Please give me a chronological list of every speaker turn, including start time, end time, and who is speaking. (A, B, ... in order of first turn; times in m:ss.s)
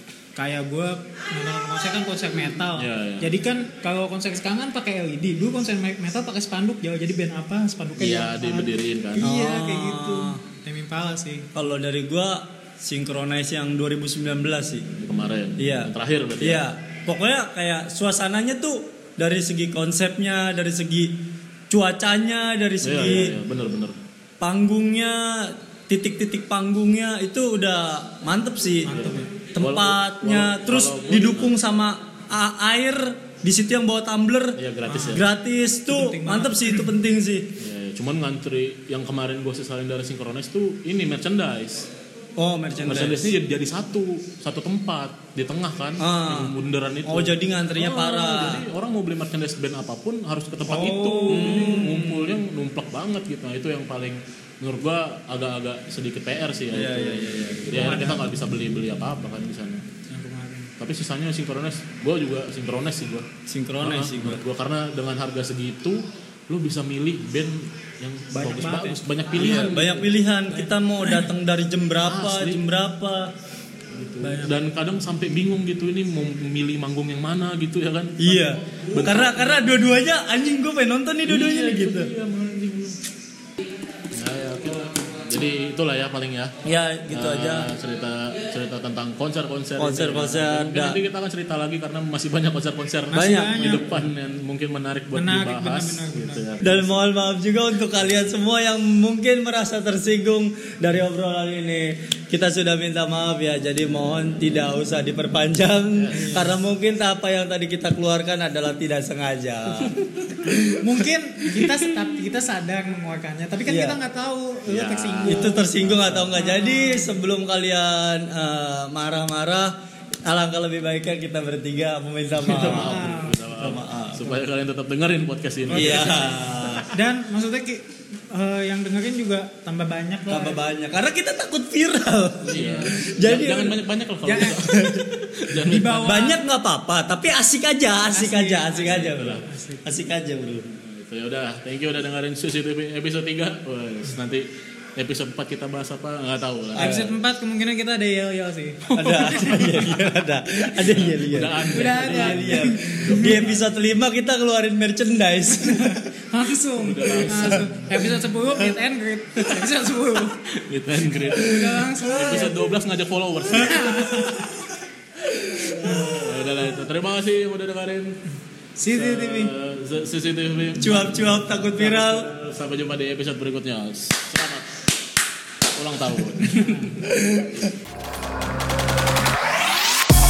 0:00.4-0:11.5 A
0:02.8-0:03.3 B
0:08.0-0:09.3 B
0:09.2-0:10.4 C
0:11.5-0:14.8 C
0:15.0-0:16.6 B
0:15.6-0:21.1 C
0:21.7-0:23.4 C
0:22.8-0:23.9 B
0:24.4-0:37.5 C
0:28.8-0:29.3 A
0:28.9-0:31.5 B
0:34.6-0:35.3 B
0:34.9-0:35.2 A
0:35.9-0:36.9 A
0:37.6-0:41.9 B
0:42.4-0:43.3 C
0:42.8-0:59.8 B
0:46.0-0:46.5 C
0:47.0-0:48.6 C
0:50.6-0:51.8 A
0:51.3-0:52.4 C
0:56.7-0:58.1 C
0:57.7-0:58.2 A
1:00.1-1:00.7 A
1:00.8-1:03.3 B
1:03.5-1:04.4 C
1:03.8-1:10.0 B
1:08.3-1:10.7 A
1:09.3-1:13.3 C
1:12.0-1:12.6 B
1:13.9-1:19.8 B
1:14.2-1:14.5 A
1:18.2-1:22.1 C
1:21.2-1:23.0 B
1:24.1-1:26.5 B
1:26.6-1:27.7 C
1:27.1-1:36.9 B
1:29.8-1:31.0 C
1:33.1-1:33.9 A
1:33.1-1:33.7 C
1:35.1-1:36.4 A
1:36.6-1:50.8 C
1:45.9-1:46.5 B
1:46.1-1:46.5 A
1:50.8-1:55.7 A
1:53.6-1:54.0 C
1:54.7-1:56.3 B
1:55.2-1:59.7 C
1:56.3-1:57.1 A
2:00.2-2:04.3 C
2:02.4-2:06.5 B
2:02.5-2:03.4 A
2:05.7-2:06.9 C
2:05.7-2:10.6 A
2:10.3-2:13.8 C
2:12.4-2:16.2 B
2:12.5-2:12.9 A
2:14.2-2:14.6 A
2:14.7-2:15.0 C
2:15.6-2:16.4 A
2:16.0-2:20.6 C
2:18.1-2:19.8 A
2:18.8-2:19.4 B
2:20.7-2:27.1 B
2:26.7-2:27.1 C
2:26.8-2:29.9 A
2:28.9-2:36.0 C
2:30.8-2:33.7 B
2:31.7-2:33.4 A
2:35.5-2:40.4 A
2:36.8-2:38.0 B
2:39.4-2:39.7 B
2:40.3-2:44.5 B
2:41.4-2:42.6 A
2:43.5-2:44.5 A
2:45.5-2:48.2 B
2:45.8-2:46.1 A
2:48.8-2:49.5 A
2:48.9-2:54.7 B
2:50.8-2:52.3 C
2:55.7-2:57.1 B
2:56.4-2:56.9 A
2:57.1-2:57.6 C